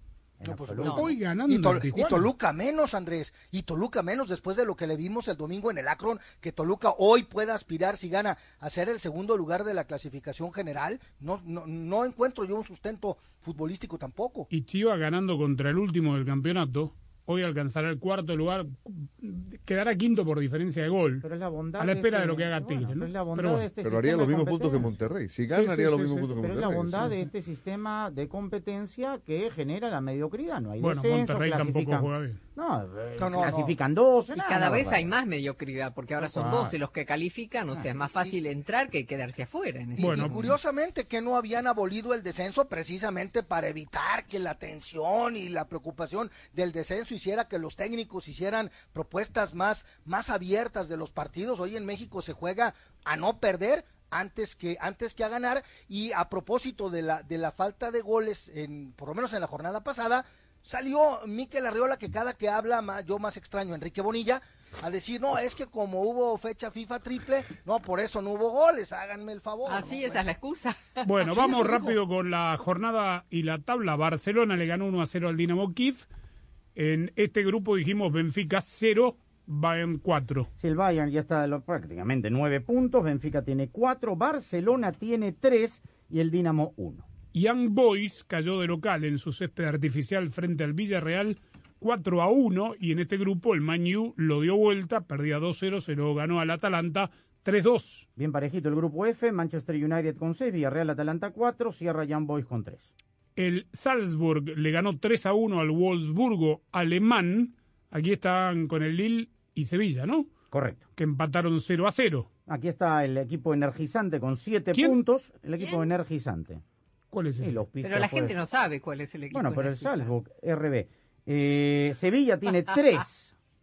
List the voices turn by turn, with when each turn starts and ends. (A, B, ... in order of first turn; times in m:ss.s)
0:00.4-0:01.1 A
0:00.4-0:14.5 B
0:00.8-0:02.3 C
0:14.5-0:21.2 C
0:21.2-0:25.0 A
0:21.8-0:23.7 C
0:23.8-0:27.1 D
0:25.5-0:27.2 C
0:26.4-0:35.1 A
0:30.8-0:32.4 C
0:33.2-0:33.8 B
0:34.4-0:40.3 E
0:36.2-0:36.8 A
0:40.0-1:10.2 B
0:40.0-0:40.4 C
1:09.7-1:11.9 E
1:11.0-1:16.1 C
1:16.8-1:20.5 C
1:20.6-1:27.0 A
1:27.3-1:38.1 C
1:38.2-1:42.9 A
1:43.4-1:50.3 C
1:50.5-1:50.8 A
1:51.0-1:52.3 C
1:52.5-1:56.6 A
1:57.1-1:57.6 C
1:57.4-1:58.4 A
1:57.8-2:00.1 E
1:59.3-2:03.3 A